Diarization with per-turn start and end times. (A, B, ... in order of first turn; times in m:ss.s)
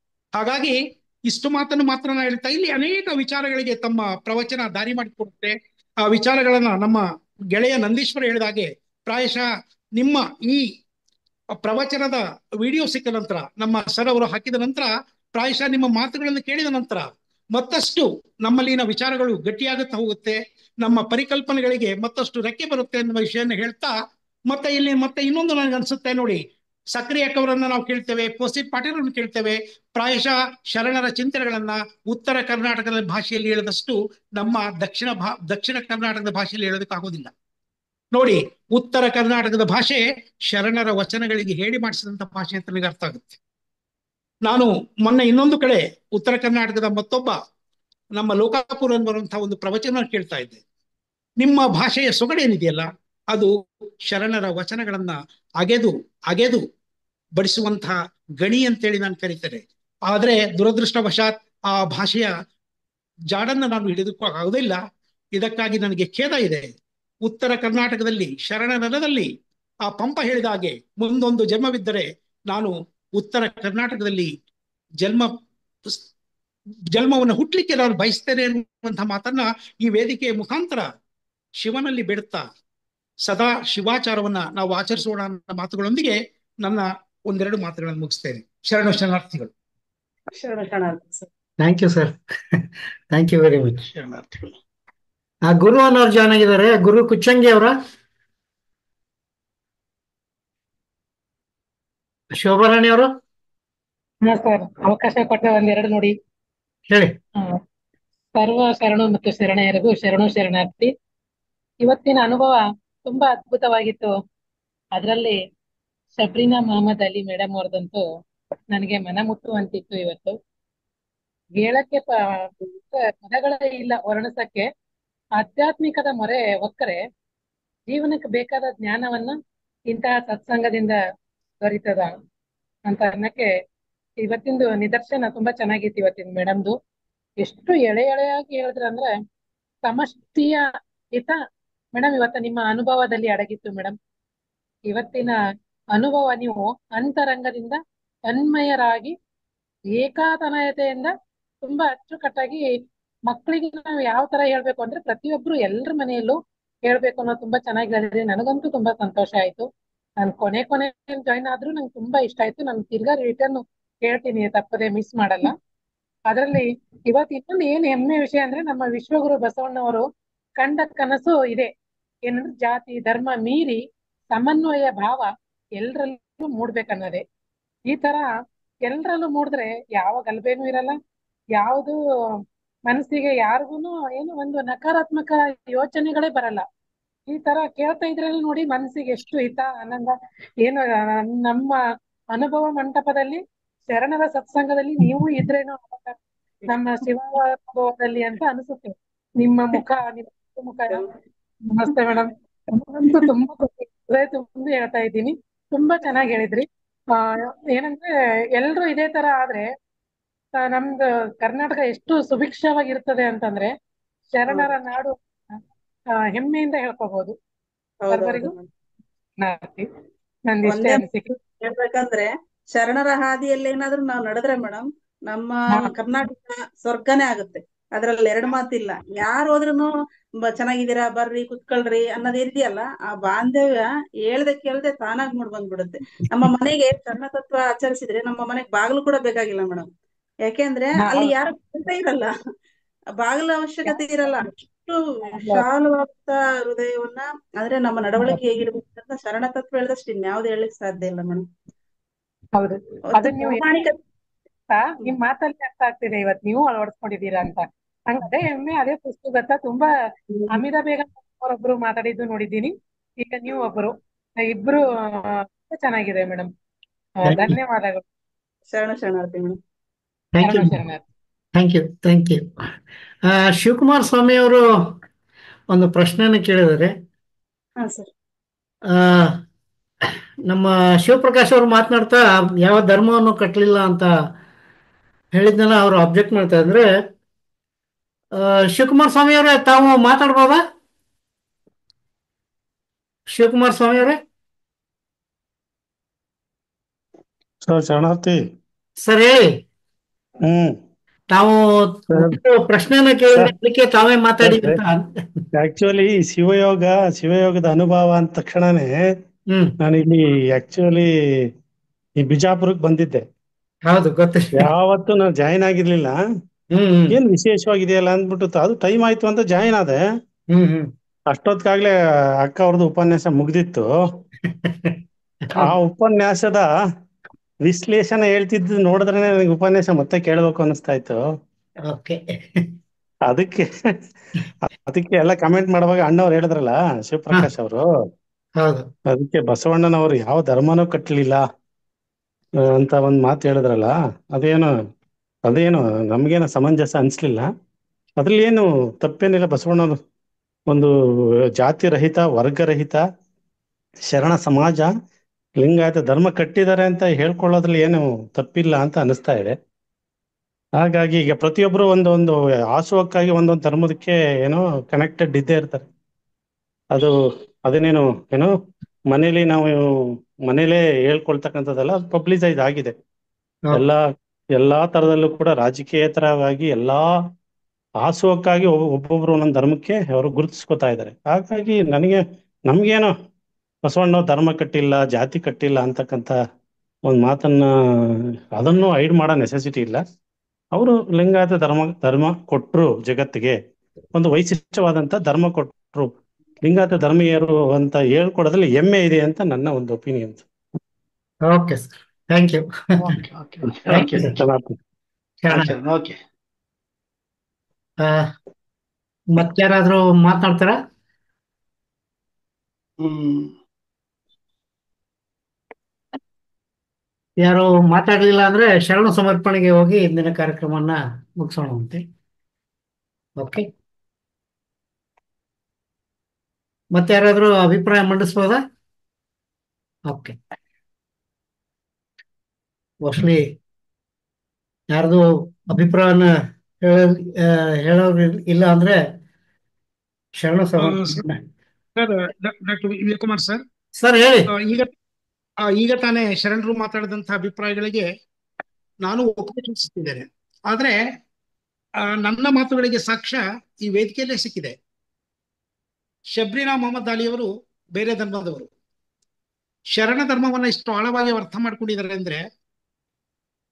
0:00.4-0:00.8 A
0:01.3-0:07.0 A
0:07.5-0:09.5 A
0:10.0-0:10.7 A
0:11.6-0:23.9 A
0:24.5-0:37.3 A
0:38.1-0:43.4 A
0:44.4-0:47.4 A
0:48.2-0:50.6 A
0:51.4-0:53.5 A
0:54.1-0:56.6 A
0:57.4-1:02.3 A
1:03.3-1:04.8 A
1:05.4-1:06.7 A
1:07.2-1:09.3 A
1:09.9-1:14.3 A
1:15.0-1:15.4 A
1:16.9-1:20.9 A
1:21.6-1:22.5 A
1:23.2-1:29.5 A
1:30.4-1:31.3 B
1:31.6-1:33.8 C
1:33.9-1:34.5 D
1:35.5-1:37.7 C
1:42.3-1:43.1 C
1:44.2-1:46.1 E
1:46.9-1:47.2 C
1:48.4-1:50.9 E
1:51.8-1:54.1 E
1:55.0-1:55.4 E
1:56.2-1:58.0 E
1:58.7-2:00.4 E
2:01.6-2:04.7 E
2:05.4-2:07.0 E
2:07.9-2:09.4 E
2:09.9-2:11.0 E
2:11.6-2:12.2 E
2:12.9-2:13.5 E
2:14.2-2:16.8 E
2:17.4-2:19.1 E
2:19.8-2:21.4 E
2:22.0-2:24.0 E
2:24.9-2:25.4 E
2:25.9-2:29.2 E
2:30.0-2:31.1 E
2:31.6-2:32.7 E
2:33.3-2:39.7 E
2:40.2-2:45.6 E
2:46.3-2:50.0 E
2:50.6-2:51.7 E
2:52.3-2:53.8 E
2:54.3-2:55.3 E
2:55.8-2:57.2 E
2:57.9-2:58.3 E
2:58.9-3:01.0 E
3:01.6-3:02.0 E
3:02.9-3:06.6 E
3:07.3-3:11.8 E
3:12.3-3:16.2 E
3:16.7-3:21.1 E
3:21.7-3:29.7 E
3:30.6-3:33.7 E
3:34.3-3:35.6 E
3:36.2-3:37.3 E
3:38.0-3:38.7 B
3:38.1-3:38.5 E
3:39.4-3:39.9 E
3:40.5-3:41.3 E
3:40.7-3:49.9 B
3:50.4-3:59.9 B
4:00.5-4:02.3 B
4:01.0-4:01.3 E
4:03.2-4:11.5 B
4:12.6-4:13.7 E
4:13.1-4:14.0 B
4:14.7-4:19.9 E
4:20.5-4:26.5 E
4:27.2-4:28.0 E
4:27.3-4:27.6 C
4:28.7-4:29.6 B
4:30.4-4:30.8 C
4:30.4-4:31.0 E
4:31.6-4:32.5 C
4:33.3-4:35.0 C
4:35.7-4:36.9 C
4:37.8-4:38.1 B
4:38.9-4:39.4 C
4:40.5-4:44.1 C
4:45.3-4:46.9 C
4:48.4-4:50.6 C
4:53.3-4:54.2 C
4:57.6-4:58.4 F
4:59.0-4:59.5 C
5:00.4-5:00.8 F
5:01.3-5:05.4 C
5:02.1-5:02.4 F
5:04.4-5:04.8 F
5:05.5-5:09.1 F
5:09.8-5:11.5 F
5:12.2-5:13.2 F
5:13.9-5:14.7 C
5:14.6-5:16.2 F
5:16.7-5:17.2 C
5:17.1-5:20.0 F
5:20.5-5:20.9 C
5:21.3-5:24.0 F
5:24.4-5:25.7 C
5:25.6-5:26.7 F
5:27.6-5:31.2 F
5:31.9-5:32.8 C
5:33.3-5:33.7 F
5:34.6-5:37.9 F
5:38.6-5:38.9 C
5:39.1-5:41.4 F
5:42.6-5:44.7 F
5:45.5-5:47.5 F
5:48.2-5:50.0 F
5:51.6-5:53.0 F
5:54.1-5:54.9 F
5:55.6-5:59.6 F
6:00.8-6:05.8 F
6:07.7-6:08.5 F
6:09.1-6:13.0 F
6:13.7-6:17.2 F
6:18.0-6:23.1 F
6:23.8-6:26.4 F
6:27.1-6:30.0 F
6:30.7-6:33.6 F
6:34.1-6:36.1 F
6:36.6-6:40.5 F
6:41.5-6:43.2 C
6:43.2-6:44.3 D
6:43.9-6:44.4 C
6:44.2-6:44.8 F
6:45.4-6:45.7 C
6:45.5-6:46.2 D
6:48.0-6:48.3 C
6:49.3-6:50.8 C
6:53.0-6:53.5 D
6:57.4-7:02.0 C
7:03.4-7:03.7 C
7:06.9-7:08.6 C
7:10.1-7:10.4 C
7:13.0-7:13.5 C
7:14.9-7:16.3 C
7:16.8-7:19.0 C
7:20.4-7:21.4 C
7:20.8-7:21.2 A
7:22.0-7:23.6 A
7:24.0-7:24.5 C
7:24.5-7:24.9 A
7:25.8-7:28.1 A
7:29.0-7:30.9 A
7:32.2-7:34.8 A
7:36.3-7:38.7 A
7:39.9-7:42.4 A